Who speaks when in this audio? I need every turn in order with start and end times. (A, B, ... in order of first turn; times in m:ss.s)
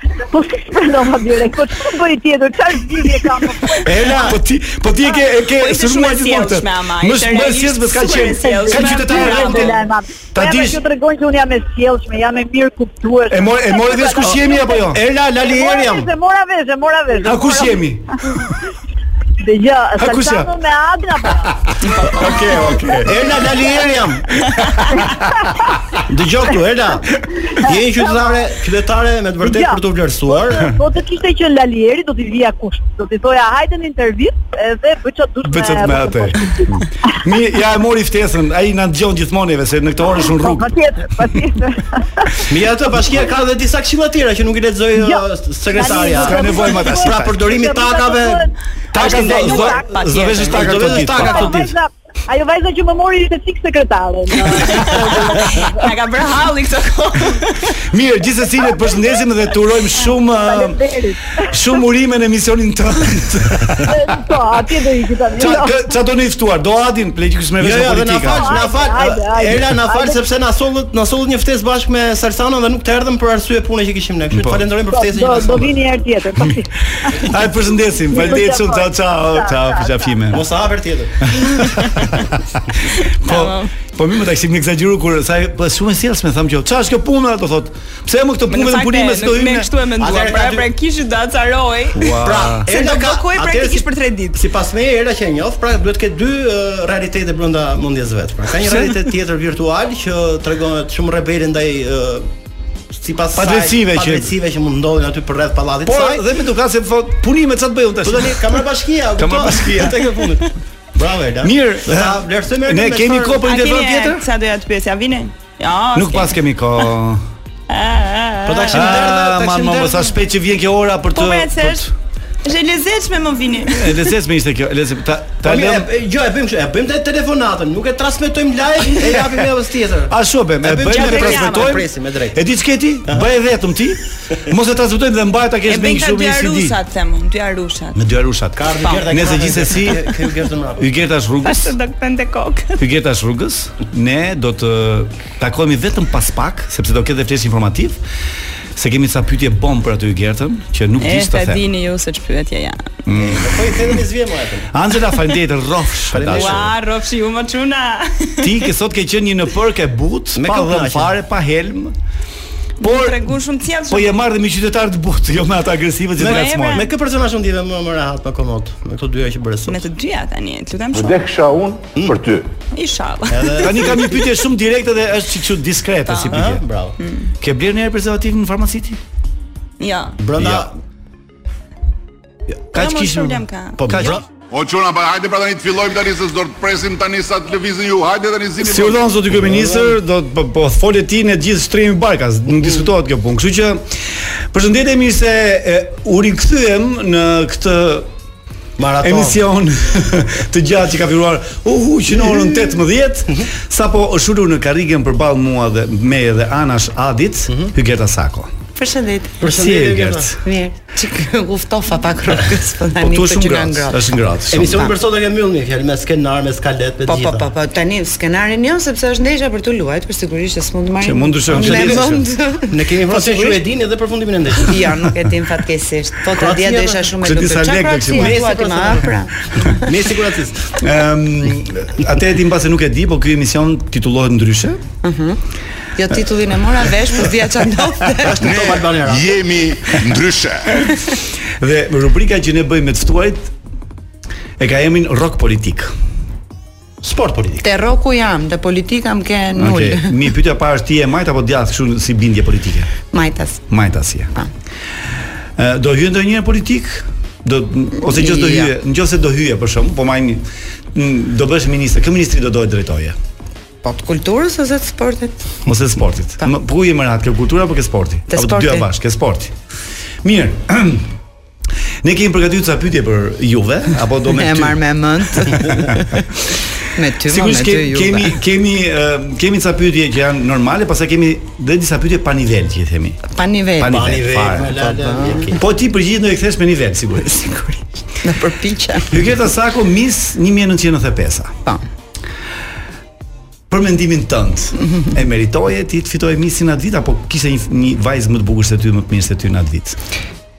0:00.3-0:04.3 A
0:03.8-0:04.4 B
0:04.0-0:10.8 C
0:05.6-0:09.8 D
0:08.4-0:17.8 A
0:13.3-0:15.0 C
0:14.2-0:16.1 B
0:17.2-0:18.4 C
0:19.4-0:21.6 A
0:20.0-0:20.5 C
0:21.5-0:23.2 C
0:23.0-0:24.4 B
0:24.6-0:25.2 C
0:26.1-0:30.7 B
0:29.4-0:36.7 A
0:35.4-0:40.7 C
0:40.2-0:42.5 A
0:42.5-0:48.5 B
0:45.0-0:49.9 A
0:46.1-0:47.4 C
0:48.9-0:51.6 C
0:49.0-0:50.8 D
0:49.2-0:49.5 B
0:50.5-0:51.8 B
0:50.9-0:55.9 A
0:54.6-0:57.8 D
0:57.8-1:00.8 C
1:00.1-1:01.6 A
1:01.4-1:04.1 C
1:03.9-1:05.8 A
1:05.4-1:08.6 C
1:07.6-1:15.8 B
1:08.3-1:10.2 A
1:14.3-1:14.7 C
1:14.9-1:17.3 A
1:17.0-1:20.5 C
1:18.1-1:20.2 A
1:20.3-1:21.3 B
1:21.2-1:22.7 C
1:23.0-1:23.7 D
1:23.2-1:29.7 C
1:28.5-1:34.4 D
1:30.0-1:30.7 B
1:31.9-1:32.7 C
1:32.1-1:42.3 B
1:38.6-1:39.1 C
1:42.9-1:46.2 B
1:43.4-1:44.3 C
1:45.8-1:48.6 C
1:48.0-1:53.6 B
1:49.2-1:50.1 C
1:51.4-1:54.2 C
1:53.4-1:56.4 D
1:55.9-1:57.2 C
1:57.7-1:59.1 D
1:58.5-2:00.2 B
1:58.7-2:01.9 C
2:01.1-2:01.9 D
2:02.4-2:04.1 D
2:03.7-2:05.9 C
2:05.4-2:12.4 B
2:09.0-2:09.3 C
2:10.1-2:16.8 C
2:10.9-2:11.8 D
2:15.7-2:18.0 D
2:18.0-2:20.1 C
2:18.6-2:20.9 B
2:18.8-2:19.1 D
2:20.8-2:21.7 C
2:21.4-2:22.8 D
2:22.8-2:28.0 C
2:28.8-2:31.6 C
2:31.0-2:32.9 D
2:33.1-2:34.0 C
2:33.1-2:34.7 B
2:34.7-2:36.7 C
2:36.1-2:36.7 B
2:36.3-2:38.7 D
2:38.4-2:42.0 C
2:40.4-2:41.1 B
2:42.8-2:44.2 D
2:42.8-2:43.3 C
2:43.9-2:46.9 C
2:46.2-2:49.8 B
2:46.2-2:46.9 D
2:49.7-2:51.2 D
2:51.0-2:52.4 E
2:52.0-2:52.3 B
2:52.7-2:54.1 D
2:53.3-2:54.2 B
2:53.6-2:56.6 C
2:56.1-2:56.4 D
2:56.3-2:57.0 B
2:57.0-2:57.3 D
2:57.4-2:59.0 C
2:59.8-3:00.2 D
3:00.2-3:00.7 B
3:00.4-3:00.7 C
3:02.7-3:04.2 D
3:02.7-3:04.2 C
3:03.8-3:04.2 B
3:04.5-3:09.0 E
3:08.6-3:13.8 C
3:09.3-3:10.0 B
3:14.5-3:18.1 C
3:18.8-3:19.4 B
3:19.0-3:28.5 C
3:22.1-3:22.8 B
3:28.8-3:29.4 F
3:29.4-3:30.4 B
3:29.4-3:30.4 C
3:30.4-3:34.1 F
3:33.0-3:34.9 C
3:34.5-3:37.5 B
3:37.1-3:43.6 F
3:41.0-3:42.3 C
3:41.5-3:42.2 B
3:42.7-3:44.9 B
3:44.7-3:49.8 F
3:46.3-3:47.1 B
3:47.2-3:48.5 C
3:48.1-3:50.8 B
3:50.8-3:54.8 C
3:55.0-3:55.4 F
3:56.0-3:58.4 F
3:58.2-3:59.4 B
3:58.4-4:00.8 E
4:01.5-4:03.5 C
4:04.6-4:05.9 C
4:07.0-4:07.6 B
4:07.6-4:10.2 F
4:09.6-4:12.9 C
4:13.1-4:13.6 F
4:13.7-4:14.3 C
4:15.6-4:23.2 C
4:18.0-4:18.7 F
4:23.8-4:25.4 F
4:25.7-4:29.5 C
4:28.3-4:28.9 F
4:30.2-4:31.1 C
4:32.0-4:36.1 C
4:34.3-4:36.3 F
4:37.0-4:38.4 F
4:37.2-4:43.2 C
4:43.3-4:44.0 F
4:43.8-4:44.9 C
4:43.8-4:45.6 B
4:44.8-4:45.5 F
4:45.5-4:47.5 C
4:47.2-4:49.2 F
4:49.1-4:51.6 C
4:53.7-5:00.0 C